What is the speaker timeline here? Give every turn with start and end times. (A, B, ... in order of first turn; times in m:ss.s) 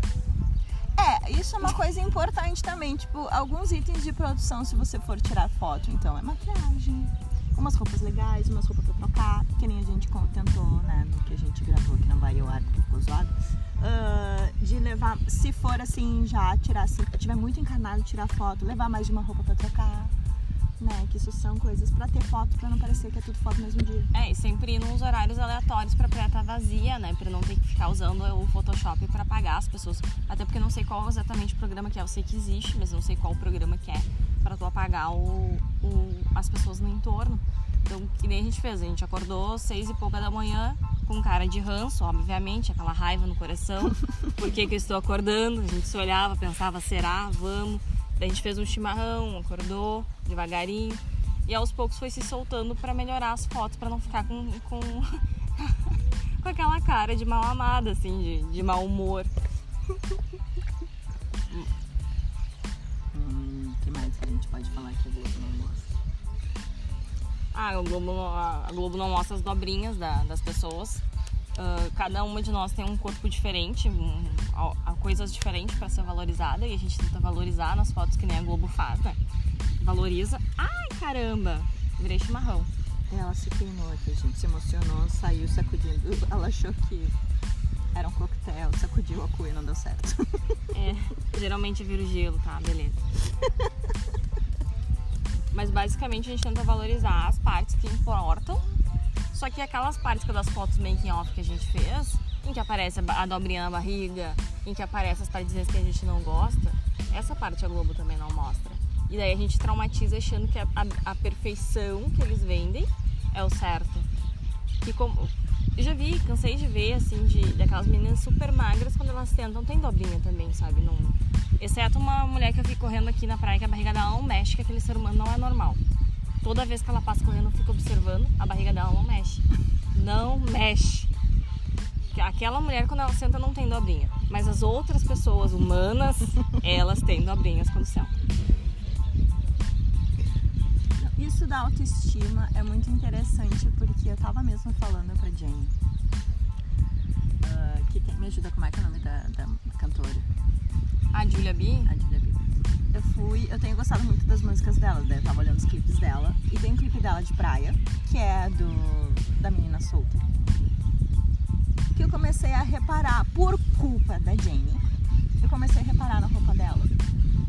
0:01.0-0:20.1 A
0:20.8-0:24.1 A
0:24.1-0:59.3 B
1:03.1-1:06.0 A
1:07.5-1:11.0 B
1:11.6-1:19.2 B
1:19.8-1:22.7 B
1:23.1-1:27.2 A
1:27.9-1:30.6 A
1:30.7-1:33.0 B
1:35.5-1:38.7 B
1:39.3-1:54.1 B
1:54.8-2:05.8 B
2:06.4-2:11.1 B
2:12.1-2:18.1 B
2:21.0-2:25.8 A
2:27.4-2:30.3 A
2:31.1-2:31.9 B
2:31.8-2:40.3 A
2:41.9-2:44.9 A
2:45.4-2:47.0 A